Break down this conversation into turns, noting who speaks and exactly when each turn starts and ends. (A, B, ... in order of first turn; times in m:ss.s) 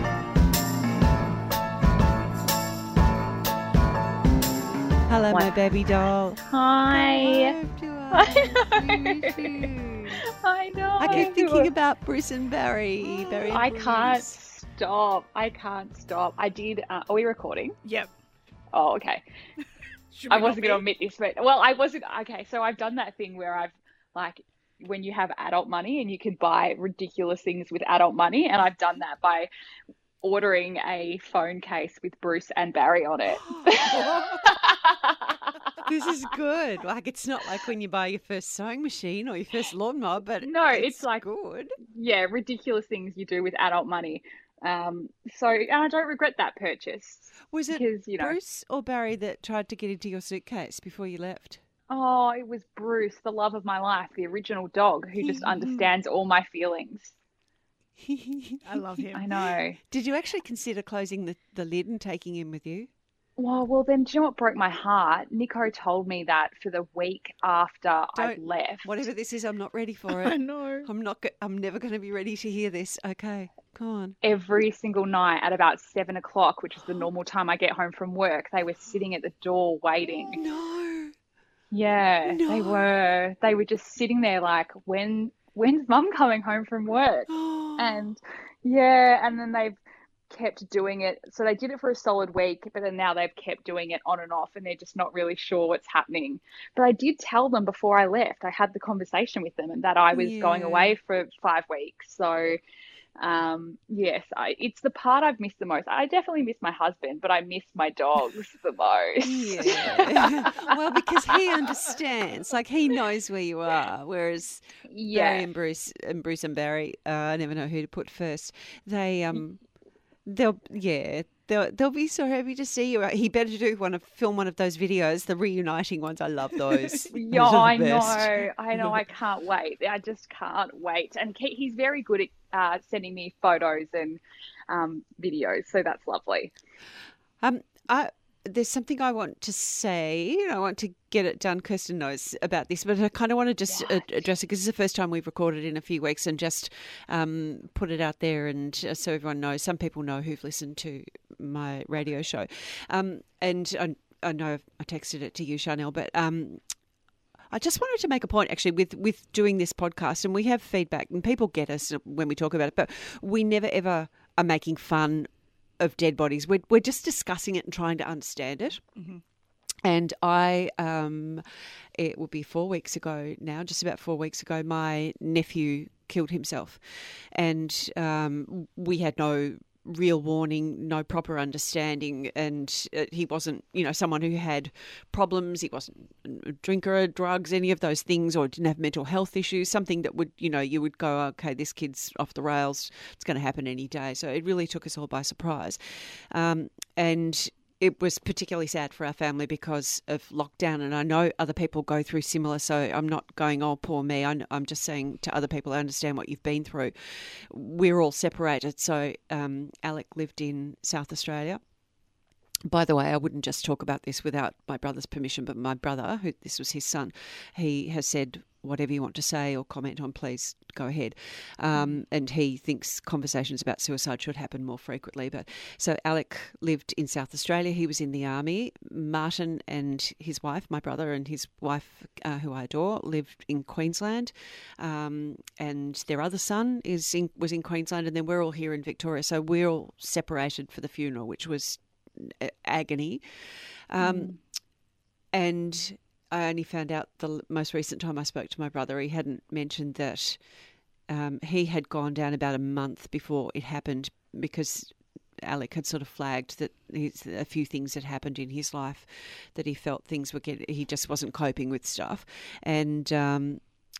0:05.1-0:10.2 A
0:06.4-0:07.6 B
0:08.1-0:11.7 B
0:11.0-0:14.3 A
0:13.0-0:17.8 B
0:17.8-0:18.1 C
0:18.7-0:19.2 B
0:20.1-0:20.8 C
0:20.3-0:29.5 B
0:30.2-0:35.8 B
0:33.3-0:34.6 A
0:35.8-0:41.8 A
0:40.4-0:41.3 B
0:41.8-0:48.4 B
0:47.5-0:51.6 A
0:51.9-0:57.1 B
0:55.4-0:55.9 C
0:58.0-1:02.9 A
0:58.6-0:59.3 C
0:59.1-0:59.8 B
1:03.4-1:09.0 B
1:08.2-1:14.2 A
1:10.1-1:10.9 C
1:14.2-1:20.4 B
1:20.1-1:21.1 A
1:21.7-1:29.8 B
1:22.2-1:22.8 A
1:27.3-1:28.1 A
1:30.3-1:42.6 B
1:40.1-1:41.0 A
1:43.2-1:50.8 B
1:49.2-1:59.6 A
1:54.9-1:55.5 B
2:00.3-2:08.4 A
2:06.7-2:07.1 C
2:07.1-2:16.5 B
2:17.4-2:36.6 A
2:23.7-2:24.0 B
2:37.5-2:48.8 A
2:49.0-2:49.2 C
2:49.8-2:51.4 A
2:52.0-3:31.6 A
3:32.7-4:04.3 A
4:04.0-4:04.4 B
4:05.3-4:10.4 A
4:11.1-4:23.6 A